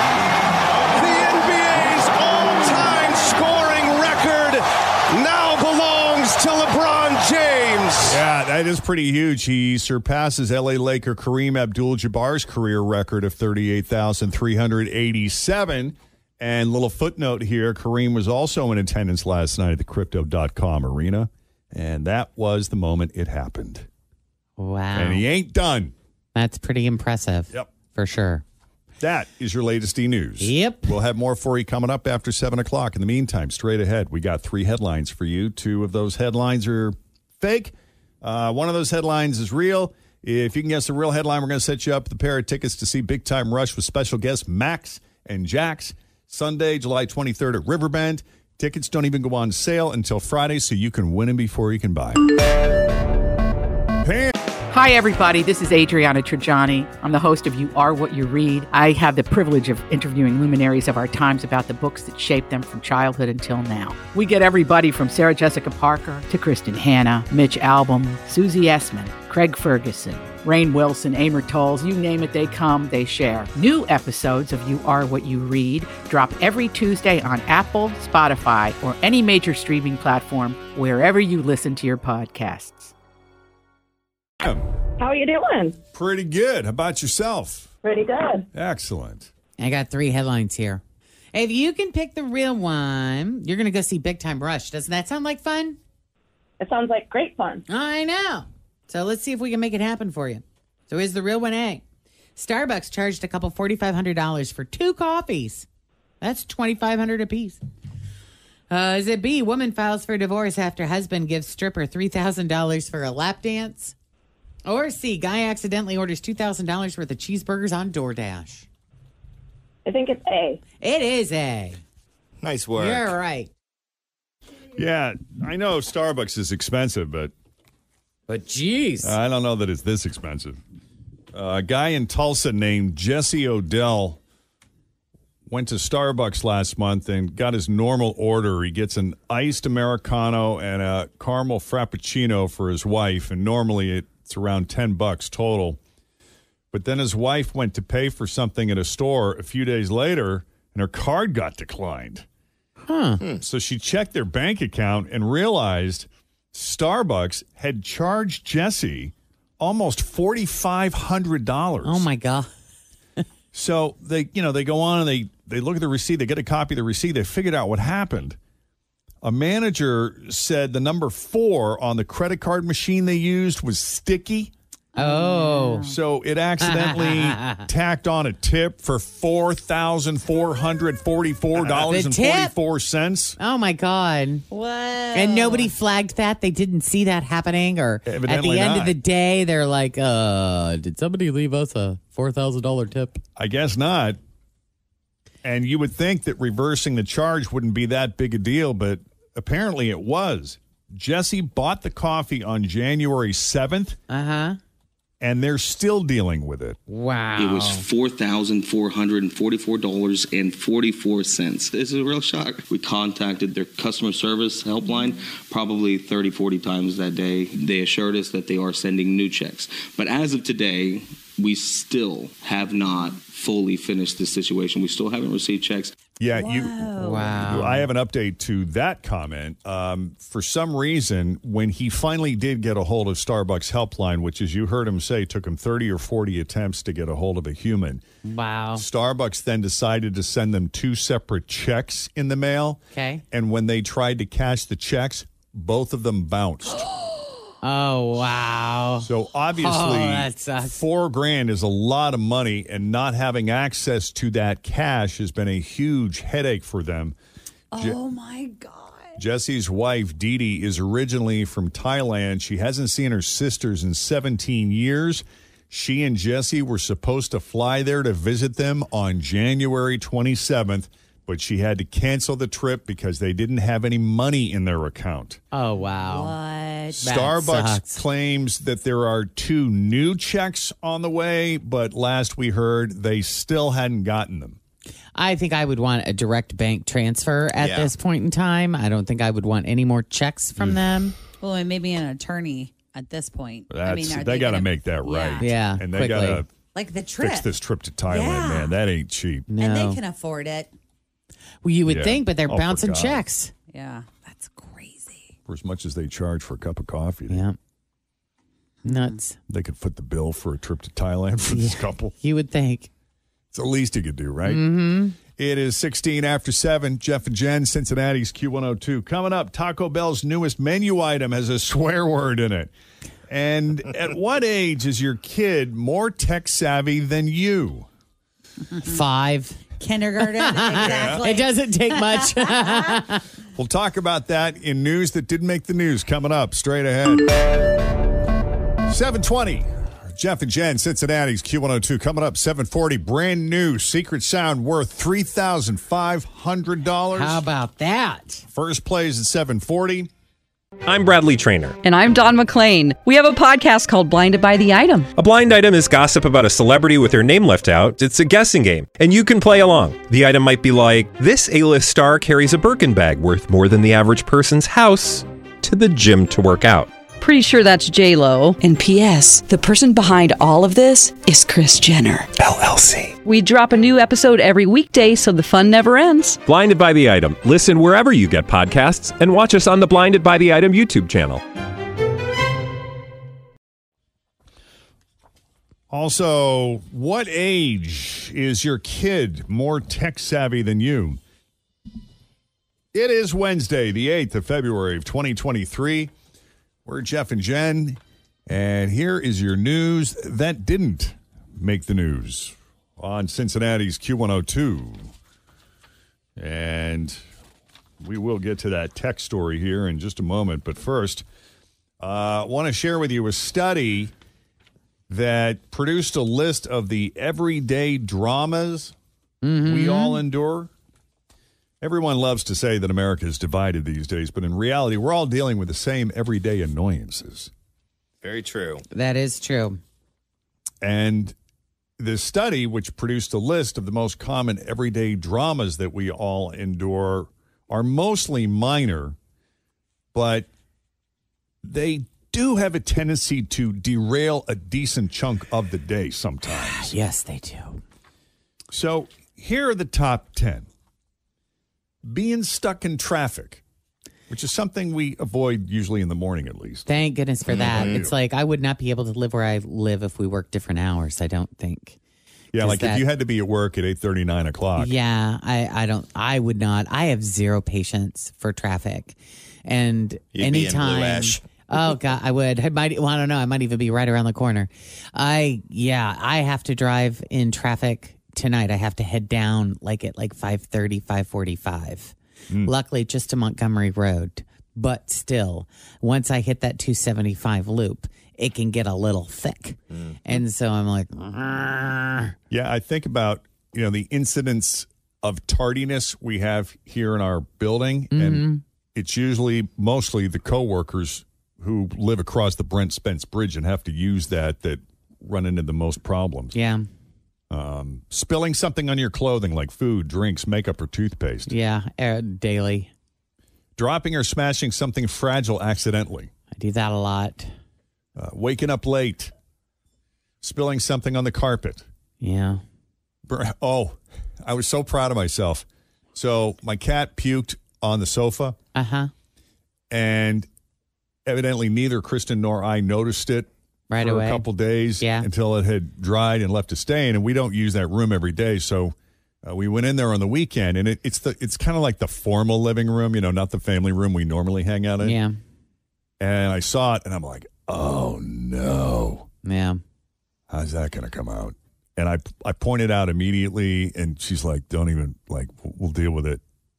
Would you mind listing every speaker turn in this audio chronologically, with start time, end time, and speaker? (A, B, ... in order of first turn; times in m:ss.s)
0:00.9-0:08.2 A
0:08.1-0:23.9 B
0:24.6-0:25.2 C
0:25.0-0:25.9 B
0:26.4-0:28.4 C
0:29.0-0:52.3 B
0:30.4-0:30.9 C
0:54.0-0:54.3 B
0:54.7-1:22.9 D
1:25.0-1:25.8 E
1:25.9-1:27.7 B
1:27.8-1:28.5 E
1:28.5-1:29.3 B
1:29.6-1:30.8 C
1:31.3-1:35.8 C
1:36.6-1:37.6 E
1:37.7-1:41.8 C
1:42.4-1:45.7 C
1:46.2-1:47.6 C
1:48.7-1:54.0 C
1:54.6-1:58.7 C
1:59.9-2:00.6 E
2:00.8-2:01.8 C
2:02.4-2:03.1 F
2:02.8-2:03.5 C
2:04.8-2:07.3 B
2:08.3-2:09.2 C
2:09.0-2:10.6 B
2:11.3-2:14.2 B
2:15.5-2:25.8 B
2:26.7-2:32.3 B
2:32.9-2:33.2 C
2:33.4-2:42.1 B
2:41.8-2:42.5 C
2:43.5-2:48.4 B
2:49.2-2:54.5 B
2:55.0-2:55.9 C
2:55.0-2:56.0 G
2:55.8-3:03.4 B
2:56.6-2:57.7 C
3:01.6-3:02.5 C
3:03.4-3:04.4 C
3:04.5-3:05.7 G
3:05.1-3:13.2 C
3:08.0-3:09.0 B
3:13.4-3:14.2 B
3:15.4-3:24.0 B
3:24.1-3:24.6 C
3:25.2-3:26.8 B
3:26.9-3:27.8 C
3:27.4-3:46.0 H
3:46.2-3:58.0 B
3:46.4-3:47.4 G
3:47.0-3:47.8 C
3:58.2-3:58.8 C
3:58.8-4:06.9 B
4:02.9-4:03.2 C
4:07.6-4:10.8 C
4:09.0-4:17.2 B
4:17.7-4:19.2 G
4:19.2-4:35.4 B
4:35.5-4:36.3 C
4:36.0-4:37.0 G
4:36.9-4:44.6 B
4:37.0-4:38.0 C
4:45.2-4:51.2 C
4:47.6-4:47.9 F
4:50.6-4:50.8 B
4:51.4-4:55.5 G
4:53.7-4:56.5 B
4:55.4-4:56.4 C
4:56.7-4:57.5 G
4:57.2-4:59.5 B
4:58.1-4:58.7 G
4:59.5-5:00.0 C
4:59.6-5:00.7 G
5:01.6-5:03.5 C
5:01.9-5:03.2 B
5:03.7-5:05.3 G
5:05.5-5:07.4 B
5:07.3-5:07.6 C
5:08.8-5:09.2 G
5:08.8-5:09.4 C
5:09.5-5:12.1 B
5:11.5-5:12.9 C
5:13.5-5:14.6 B
5:14.4-5:15.2 C
5:15.2-5:22.7 B
5:23.3-5:27.9 B
5:28.8-5:29.6 C
5:29.8-5:33.0 G
5:30.2-5:33.2 C
5:30.8-5:31.2 B
5:33.6-5:37.4 B
5:38.9-5:47.4 B
5:47.1-5:48.5 C
5:48.5-5:50.1 B
5:50.9-5:51.8 I
5:51.8-5:55.1 J
5:55.2-6:06.9 I
6:07.2-6:12.3 J
6:12.4-6:13.1 I
6:13.2-6:16.4 J
6:16.4-6:21.4 I
6:25.9-6:31.2 B
6:32.9-6:36.1 B
6:36.8-6:45.1 B
6:46.4-6:47.2 B
6:48.0-6:51.2 B
6:52.0-6:54.1 B
6:55.1-6:59.0 B
6:59.4-7:00.2 C
6:59.7-7:00.7 B
7:01.8-7:07.5 B
7:08.2-7:08.8 F
7:08.9-7:09.8 C
7:10.8-7:11.4 B
7:12.0-7:19.2 B
7:20.1-7:20.5 B
7:21.6-7:26.9 B
7:26.5-7:27.8 C
7:28.7-7:30.7 B
7:32.0-7:33.6 B
7:34.3-7:36.9 B
7:36.9-7:42.0 C
7:37.5-7:38.1 B
7:37.5-7:37.9 F
7:42.5-7:45.0 B
7:42.6-7:43.0 C
7:44.8-8:12.3 C
7:50.3-7:51.4 F
8:12.5-8:26.6 B
8:18.1-8:18.6 C
8:26.5-8:26.9 C
8:27.5-8:31.5 B
8:31.5-8:32.9 C
8:33.8-8:36.3 B
8:36.6-8:37.5 C
8:38.2-8:39.3 B
8:40.4-8:41.9 B
8:42.2-8:42.6 C
8:43.3-8:48.6 B
8:48.8-8:49.1 C
8:49.9-8:50.5 B
8:51.3-9:05.2 B
8:53.9-8:54.5 C
8:55.0-8:55.3 C
9:05.0-9:05.4 C
9:06.2-9:09.3 B
9:09.4-9:09.8 C
9:10.5-9:16.4 B